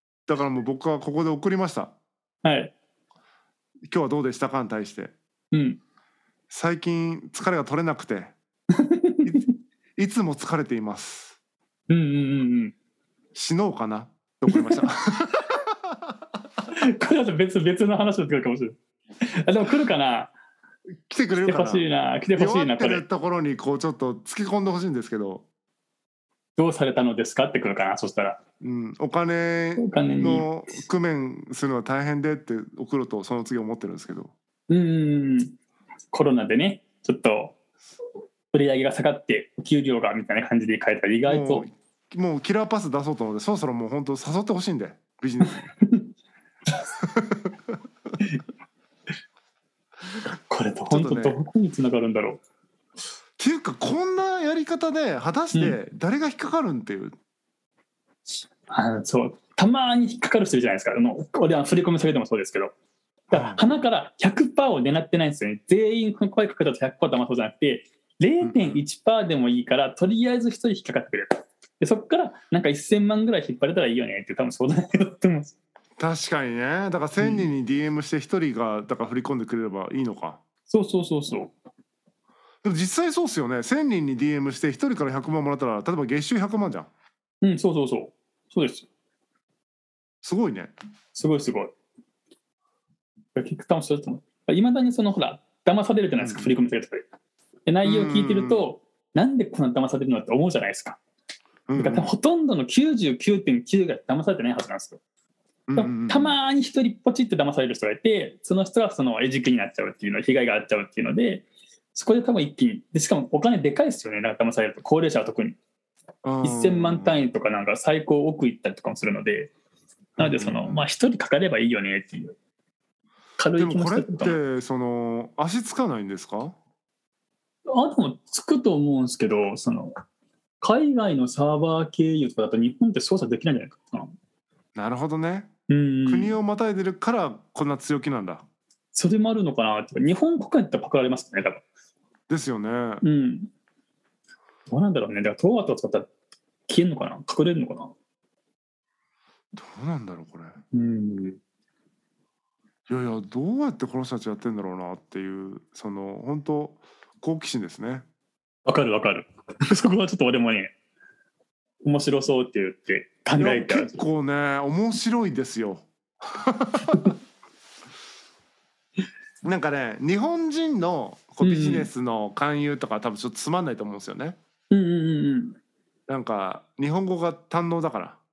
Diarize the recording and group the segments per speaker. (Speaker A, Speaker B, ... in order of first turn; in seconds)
Speaker A: 0.3-1.9, 3.9-5.1, 6.5-8.3, 10.0-11.3, 13.3-15.7, 21.1-21.9, 22.4-25.4, 28.6-34.3, 41.2-45.7, 47.0-47.7, 50.9-51.4, 53.4-57.1, 63.3-63.7, 68.4-68.8, 76.0-80.4, 82.6-86.9, 90.2-90.7, 96.2-96.6, 97.8-98.7, 101.7-102.1, 105.7-106.4, 116.2-117.2, 120.2-120.9, 123.5-126.6, 134.7-135.5, 136.1-138.4, 142.3-143.0, 149.5-150.6, 152.9-158.1, 163.4-167.1, 169.4-174.4, 176.1-178.2
Speaker B: 2.4-2.7, 5.5-5.8, 8.8-9.4, 11.9-12.7, 14.5-14.8, 16.9-18.8, 19.4-20.3, 21.3-23.0, 26.6-28.4, 29.8-30.6, 34.7-35.5, 36.1-37.5, 38.5-41.7, 45.4-46.0, 50.5-52.4, 55.5-55.8, 58.7-62.7, 63.3-75.5, 77.2-77.5, 80.7-81.5, 87.4-88.9, 91.1-91.7, 93.3-97.0, 97.7-101.0, 101.8-105.0, 105.7-115.6, 116.4-119.5, 120.2-122.3, 123.4-124.4, 127.7-129.9, 130.6-134.1, 135.7-136.3, 138.9-141.6, 143.0-143.5, 144.7-146.1, 146.7-147.9, 150.7-151.4, 158.7-160.7, 161.8-164.0, 171.4-171.9, 174.7-175.6